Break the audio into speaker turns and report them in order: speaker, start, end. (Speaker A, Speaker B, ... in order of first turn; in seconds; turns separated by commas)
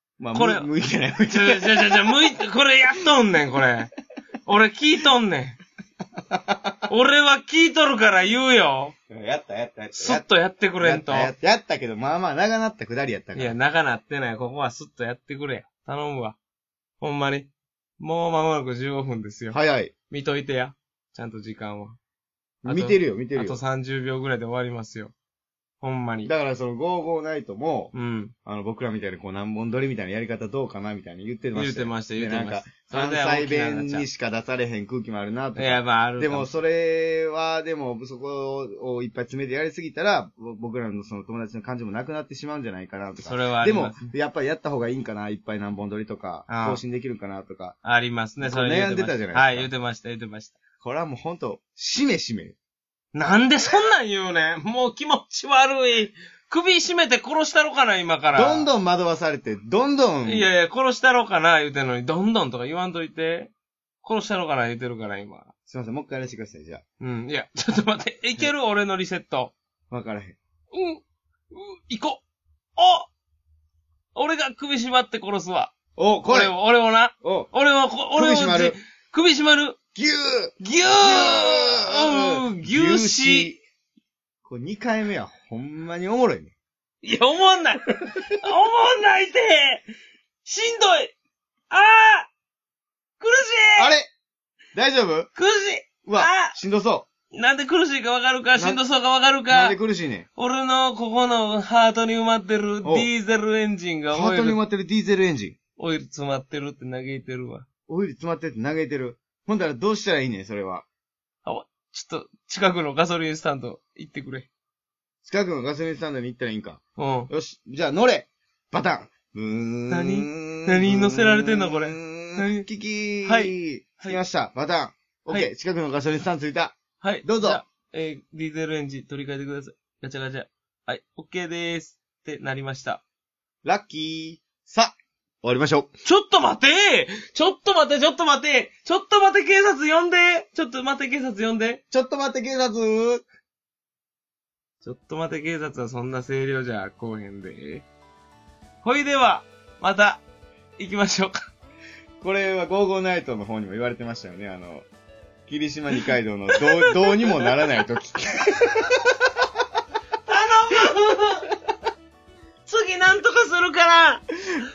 Speaker A: 0.2-2.2, Speaker B: 0.3-0.7, Speaker B: 1.3-3.9, Speaker B: 4.5-5.6, Speaker A: 6.3-6.8, Speaker B: 6.9-8.9, Speaker A: 9.1-10.2, Speaker B: 9.9-11.3, Speaker A: 10.8-13.5, Speaker B: 13.3-16.4, Speaker B: 17.0-19.6, Speaker A: 19.5-19.9, Speaker B: 20.1-22.0, Speaker A: 22.6-23.6, Speaker B: 22.6-25.1, Speaker B: 25.8-26.3, Speaker A: 26.2-27.9, Speaker B: 27.9-28.3, Speaker A: 28.4-47.8, Speaker B: 31.5-34.1, Speaker B: 35.5-36.5, Speaker B: 43.2-44.0, Speaker B: 46.5-46.8, Speaker B: 47.8-50.6, Speaker A: 48.4-49.7, Speaker A: 50.8-52.5, Speaker B: 53.1-58.7, Speaker A: 58.3-60.5, Speaker B: 60.2-65.5, Speaker A: 65.7-66.8, Speaker B: 67.0-69.5, Speaker A: 69.9-70.4, Speaker B: 70.7-72.2, Speaker B: 72.8-73.1, Speaker B: 74.1-75.7, Speaker A: 76.0-76.5, Speaker B: 76.2-79.8, Speaker A: 77.2-77.5, Speaker A: 78.2-78.8, Speaker A: 79.9-83.6, Speaker B: 80.6-83.5, Speaker A: 84.4-86.5, Speaker B: 87.0-89.9, Speaker B: 90.4-91.1, Speaker B: 91.7-92.3, Speaker B: 93.2-93.9, Speaker A: 93.8-94.1, Speaker A: 94.7-95.3, Speaker B: 95.3-96.6, Speaker A: 96.0-97.1, Speaker B: 97.3-99.8, Speaker A: 98.5-98.8, Speaker A: 99.5-100.2, Speaker B: 100.3-104.6, Speaker A: 102.8-103.1, Speaker A: 104.1-105.5, Speaker B: 105.8-107.7, Speaker A: 107.9-110.8, Speaker B: 111.4-114.5, Speaker A: 115.2-127.6, Speaker B: 117.0-117.3, Speaker B: 119.9-122.6, Speaker B: 123.2-124.2, Speaker B: 127.0-133.0, Speaker A: 133.6-135.9, Speaker B: 136.0-141.8, Speaker A: 141.9-143.2, Speaker B: 144.8-147.8, Speaker B: 148.8-150.2, Speaker B: 150.8-151.5, Speaker A: 152.2-154.8, Speaker A: 155.5-158.9, Speaker B: 156.5-157.6, Speaker B: 160.3-161.5, Speaker B: 162.7-164.2